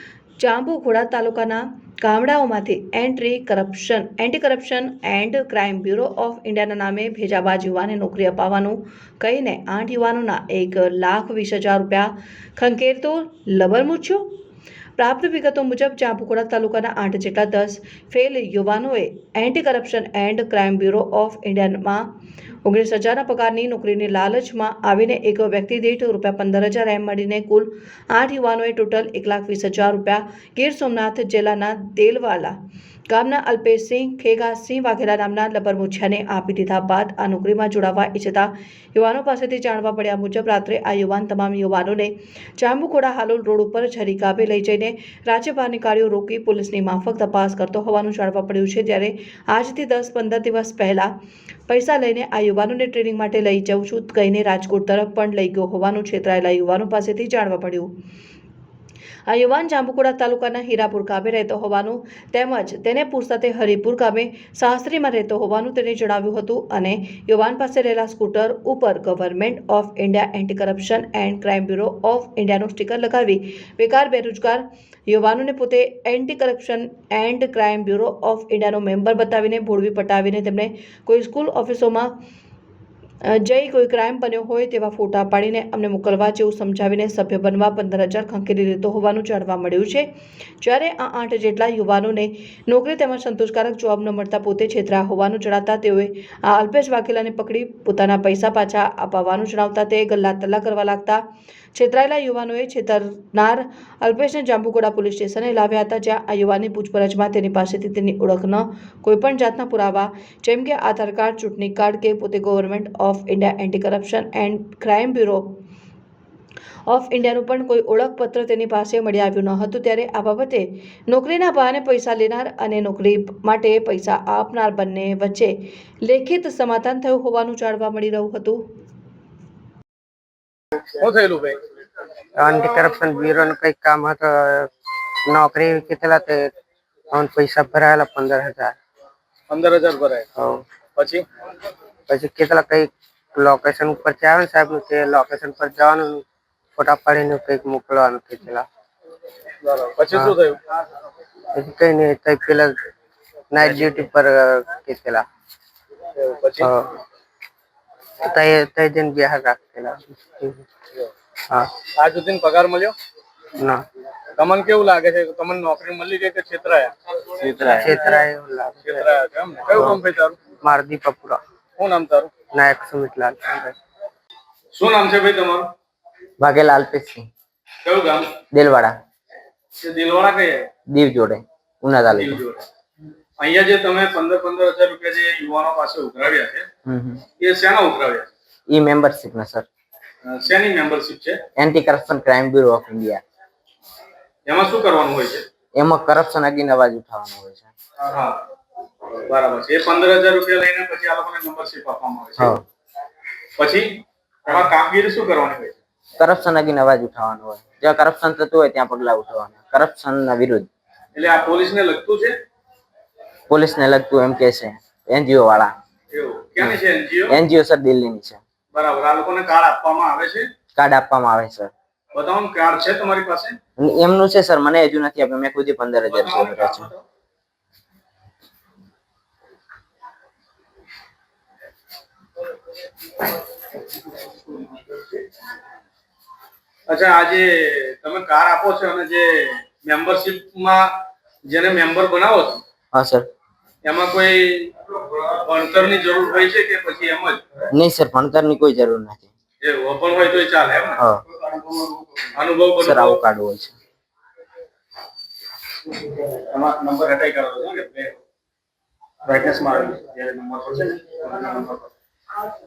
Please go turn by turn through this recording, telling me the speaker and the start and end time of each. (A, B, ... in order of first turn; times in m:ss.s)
0:00.4-0:14.3 A
0:15.0-0:22.0 A
0:22.6-0:32.6 A
0:33.1-0:51.1 A
0:51.7-0:57.9 A
0:59.3-1:22.1 A
1:23.2-1:30.1 A
1:30.6-1:41.2 A
1:41.7-1:55.5 A
1:56.9-2:08.6 A
2:11.0-2:11.6 B
2:12.4-2:14.7 C
2:15.2-2:16.5 C
2:17.1-2:18.7 C
2:19.5-2:20.3 B
2:20.4-2:20.6 C
2:21.0-2:21.2 B
2:22.1-2:26.2 C
2:26.8-2:28.7 C
2:29.6-2:30.6 B
2:31.5-2:32.8 C
2:33.5-2:35.2 C
2:36.2-2:36.7 B
2:36.6-2:36.9 C
2:38.2-2:40.6 C
2:41.9-2:42.9 B
2:43.6-2:43.8 C
2:44.4-2:48.2 B
2:47.4-2:47.9 D
2:47.4-2:49.0 C
2:48.8-2:50.4 B
2:50.6-2:51.4 C
2:51.8-2:52.3 B
2:52.5-2:53.7 C
2:54.7-2:55.7 B
2:56.4-2:57.3 D
2:57.8-2:58.3 B
2:58.5-2:59.0 D
2:59.8-3:00.7 B
3:00.9-3:02.4 D
3:02.1-3:02.6 B
3:03.4-3:06.7 B
3:06.8-3:07.2 D
3:07.4-3:08.3 B
3:08.7-3:09.7 D
3:10.2-3:11.4 B
3:11.6-3:13.2 D
3:14.5-3:15.4 B
3:15.8-3:17.7 D
3:18.0-3:18.4 B
3:19.3-3:22.6 B
3:22.4-3:22.6 D
3:23.6-3:25.8 B
3:26.2-3:30.7 D
3:31.1-3:32.4 B
3:33.5-3:35.7 D
3:36.1-3:37.4 B
3:37.3-3:38.4 D
3:38.7-3:40.5 B
3:40.8-3:41.7 D
3:42.1-3:43.6 B
3:43.8-3:46.9 D
3:46.1-3:47.0 B
3:56.9-4:02.6 B
4:02.9-4:03.3 D
4:03.8-4:04.7 B
4:05.2-4:07.4 B
4:07.7-4:09.3 D
4:09.6-4:11.0 B
4:11.0-4:11.2 D
4:12.3-4:13.2 B
4:12.8-4:13.7 D
4:16.3-4:18.2 B
4:19.2-4:21.8 B